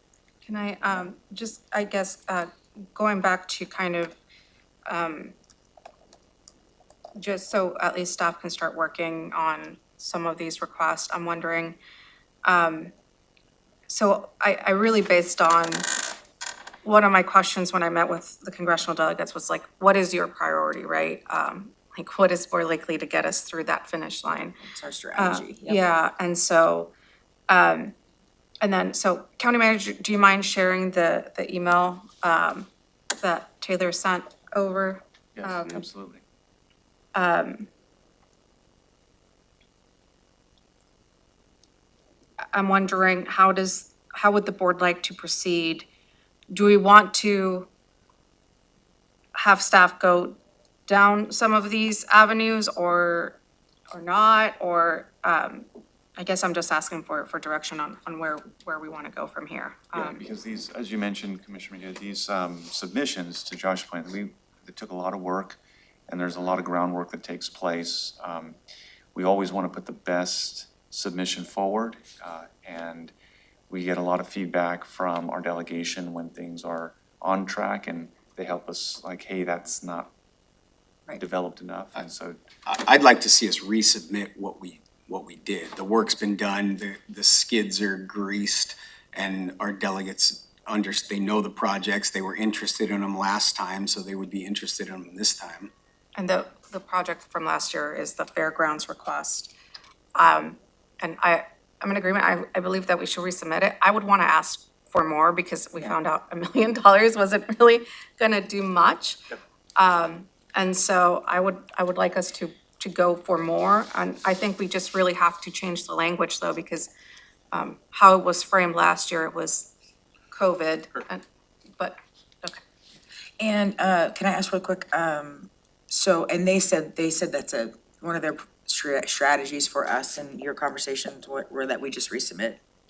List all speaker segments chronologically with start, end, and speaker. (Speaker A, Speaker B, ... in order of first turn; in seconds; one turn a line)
Speaker A: 0.5-4.2
Speaker A: 4.9-5.3
Speaker A: 7.2-11.8
Speaker A: 12.4-12.9
Speaker A: 13.9-15.9
Speaker A: 16.8-24.6
Speaker B: 24.6-25.8
Speaker A: 25.2-26.9
Speaker A: 27.5-27.9
Speaker A: 28.6-32.7
Speaker A: 33.2-35.9
Speaker C: 35.4-36.2
Speaker A: 37.1-37.7
Speaker A: 42.5-45.9
Speaker A: 46.5-47.7
Speaker A: 49.4-53.4
Speaker A: 53.9-60.2
Speaker C: 59.9-68.6
Speaker C: 69.1-73.1
Speaker C: 73.7-80.1
Speaker C: 81.2-82.4
Speaker D: 82.7-95.7
Speaker A: 96.2-99.5
Speaker A: 100.2-116.9
Speaker A: 117.5-119.7
Speaker A: 120.3-121.2
Speaker A: 121.8-122.6
Speaker B: 123.4-132.6